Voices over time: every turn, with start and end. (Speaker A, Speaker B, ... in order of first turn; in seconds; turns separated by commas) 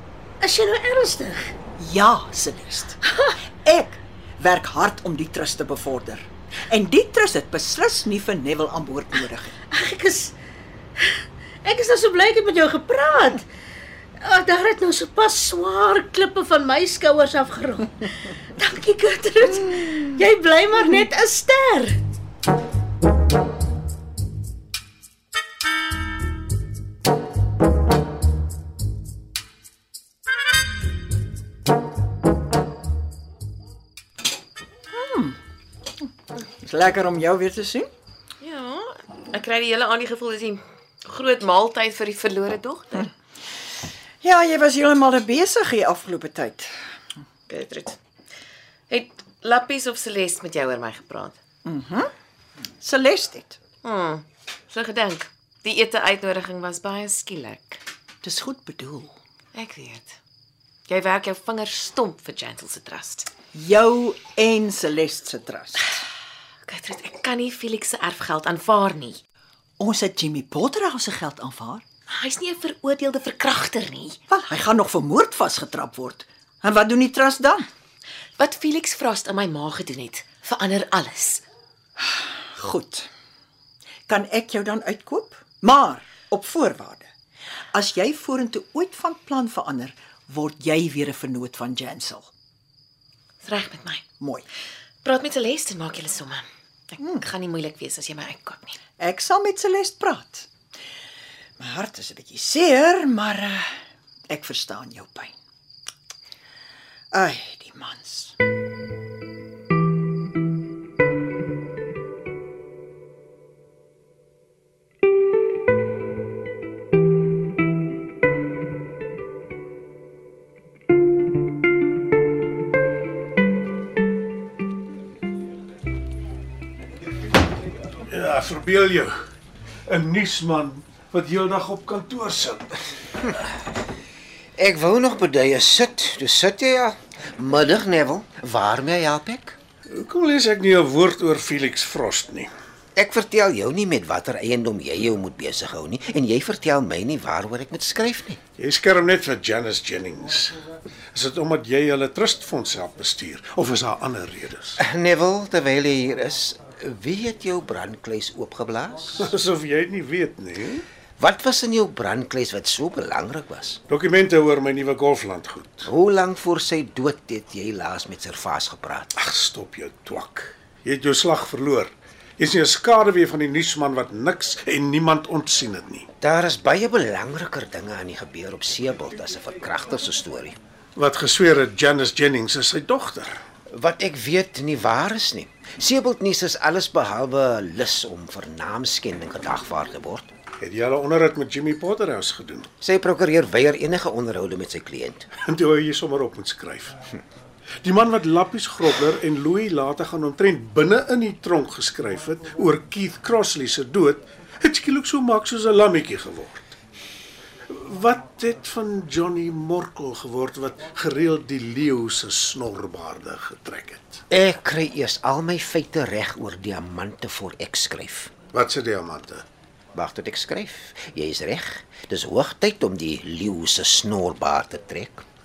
Speaker A: 0.4-1.5, Speaker B: 1.8-3.0, Speaker A: 3.1-3.4, Speaker B: 3.6-9.5, Speaker A: 9.7-10.4, Speaker A: 11.0-13.5, Speaker A: 14.2-22.0, Speaker B: 34.9-35.4, Speaker B: 36.6-37.9, Speaker C: 38.4-43.1, Speaker B: 44.2-46.7, Speaker C: 47.5-48.0, Speaker C: 48.9-51.4, Speaker B: 51.6-52.1, Speaker B: 52.8-53.6, Speaker C: 53.8-57.8, Speaker B: 58.2-59.1, Speaker C: 59.5-60.2, Speaker C: 60.9-63.3, Speaker B: 63.5-65.9, Speaker C: 66.7-69.2, Speaker B: 69.8-71.8, Speaker C: 72.1-74.2, Speaker B: 74.3-77.7, Speaker C: 78.4-81.5, Speaker B: 82.0-83.1, Speaker B: 84.1-87.1, Speaker B: 87.7-92.3, Speaker C: 93.4-94.0, Speaker B: 94.2-94.5, Speaker C: 95.0-98.8, Speaker B: 97.0-97.2, Speaker B: 99.0-100.5, Speaker B: 101.6-103.8, Speaker B: 104.3-105.3, Speaker B: 107.1-108.3, Speaker D: 128.1-129.1, Speaker D: 129.9-132.8, Speaker E: 134.6-139.6, Speaker D: 139.9-142.5, Speaker E: 143.0-148.4, Speaker D: 148.6-150.6, Speaker D: 151.1-154.8, Speaker E: 154.8-159.3, Speaker D: 159.2-160.9, Speaker E: 161.2-163.8, Speaker D: 163.9-165.9, Speaker E: 165.9-169.2, Speaker D: 169.2-176.1, Speaker E: 176.2-180.6, Speaker D: 181.0-183.4, Speaker E: 183.7-190.3, Speaker D: 190.6-192.7, Speaker E: 192.8-195.3, Speaker D: 195.4-197.0, Speaker D: 197.8-206.7, Speaker D: 207.7-214.2, Speaker E: 214.3-218.3, Speaker D: 218.5-219.4, Speaker E: 219.9-225.2